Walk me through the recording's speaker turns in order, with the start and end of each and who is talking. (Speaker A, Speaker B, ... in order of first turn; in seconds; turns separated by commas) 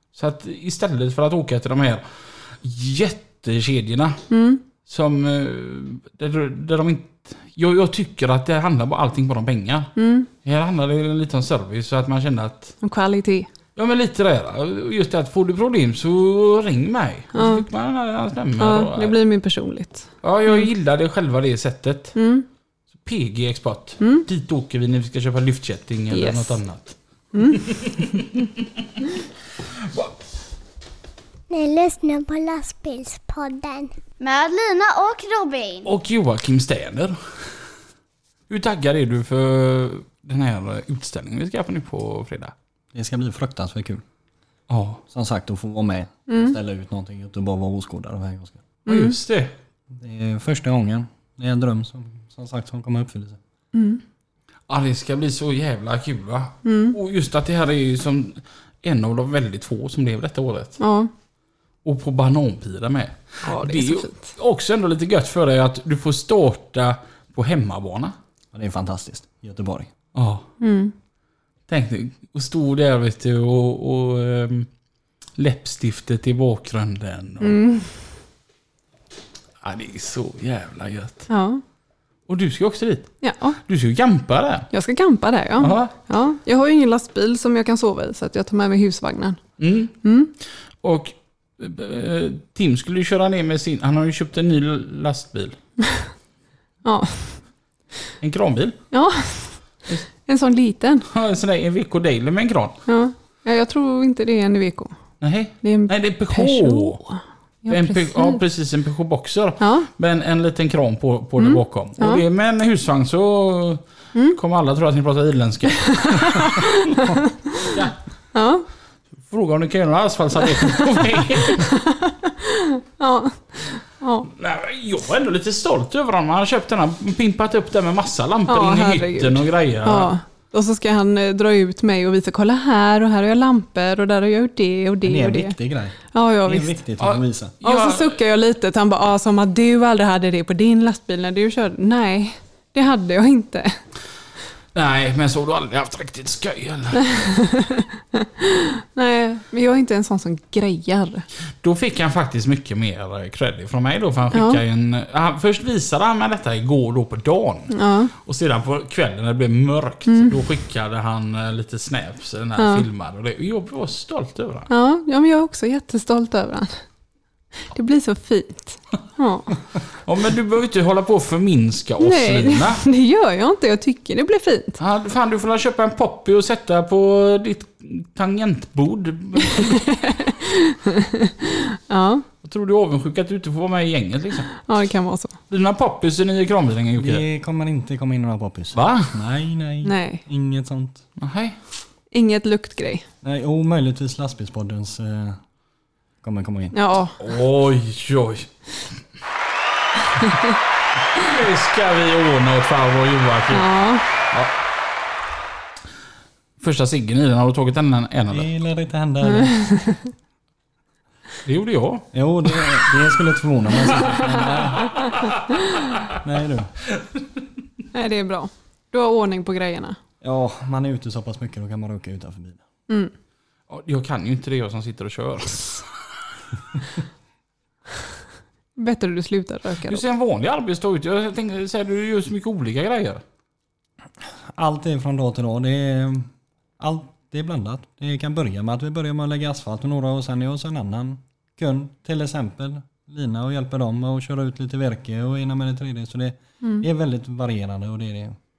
Speaker A: 0.1-4.2, Speaker B: 4.3-4.6, Speaker A: 4.8-12.8, Speaker B: 9.9-10.3, Speaker B: 12.8-13.5, Speaker A: 13.8-19.2, Speaker B: 17.3-17.6, Speaker B: 18.6-20.7, Speaker A: 20.2-22.1, Speaker B: 22.1-22.5, Speaker A: 23.0-26.9, Speaker B: 24.0-24.2, Speaker B: 26.1-26.6, Speaker B: 27.3-27.8, Speaker A: 27.5-28.3, Speaker A: 29.6-30.1, Speaker C: 31.5-35.9, Speaker A: 35.8-37.7, Speaker A: 38.5-42.5, Speaker D: 42.9-44.0, Speaker A: 44.7-45.0, Speaker D: 45.1-48.6, Speaker B: 46.3-46.5, Speaker B: 48.9-49.1, Speaker A: 48.9-49.5, Speaker D: 49.9-53.4, Speaker B: 53.7-54.0, Speaker A: 54.7-60.8, Speaker B: 56.6-57.0, Speaker B: 60.8-61.1, Speaker A: 61.8-68.1, Speaker B: 63.4-64.3, Speaker D: 68.5-69.9, Speaker A: 70.1-70.4, Speaker B: 70.6-70.9, Speaker A: 71.7-74.7, Speaker A: 75.3-77.5, Speaker B: 77.4-78.1, Speaker A: 79.6-81.3, Speaker B: 81.3-81.6, Speaker A: 82.3-84.7, Speaker B: 83.2-83.6, Speaker B: 84.7-89.4, Speaker A: 85.6-85.9, Speaker A: 89.6-90.1, Speaker B: 90.0-90.3, Speaker A: 90.7-95.6, Speaker B: 96.8-97.4, Speaker A: 98.2-98.9, Speaker B: 98.9-101.1, Speaker A: 101.1-102.8, Speaker B: 102.9-108.4, Speaker A: 105.2-107.0, Speaker A: 107.7-116.8, Speaker B: 109.6-109.9, Speaker B: 111.4-112.2, Speaker B: 116.0-116.9, Speaker A: 117.6-118.2, Speaker B: 118.3-118.7, Speaker A: 119.2-121.8, Speaker B: 121.9-122.3, Speaker B: 123.0-124.3, Speaker A: 124.3-130.1, Speaker B: 128.5-135.6, Speaker D: 135.0-137.5, Speaker B: 136.1-136.8, Speaker A: 137.0-138.2, Speaker B: 137.6-143.8, Speaker A: 144.7-147.4, Speaker B: 147.1-151.2, Speaker A: 151.6-164.7, Speaker B: 154.3-154.6, Speaker B: 157.7-158.1, Speaker B: 160.1-160.3, Speaker B: 162.6-162.8, Speaker B: 164.7-166.9, Speaker B: 167.6-169.5, Speaker A: 170.0-172.8, Speaker B: 172.0-174.8, Speaker A: 174.8-179.9, Speaker B: 179.6-181.3, Speaker B: 181.9-182.2, Speaker A: 182.4-184.6, Speaker B: 184.6-185.4, Speaker A: 185.5-187.2, Speaker D: 187.0-191.0, Speaker A: 188.7-189.1, Speaker B: 189.8-190.2, Speaker A: 191.2-191.6, Speaker B: 192.1-193.1, Speaker D: 193.2-195.4, Speaker D: 196.2-196.7, Speaker B: 196.7-197.2, Speaker A: 197.2-198.5, Speaker A: 201.2-203.7, Speaker B: 203.5-204.1, Speaker A: 206.6-208.5, Speaker D: 208.3-209.7, Speaker B: 209.3-210.1, Speaker A: 211.4-212.9, Speaker D: 212.1-215.0, Speaker A: 213.9-215.3, Speaker D: 216.2-216.8, Speaker B: 217.9-220.0, Speaker D: 220.2-222.6, Speaker A: 223.7-225.9, Speaker B: 228.8-230.0, Speaker A: 229.8-233.2, Speaker D: 234.2-248.4, Speaker B: 246.6-246.8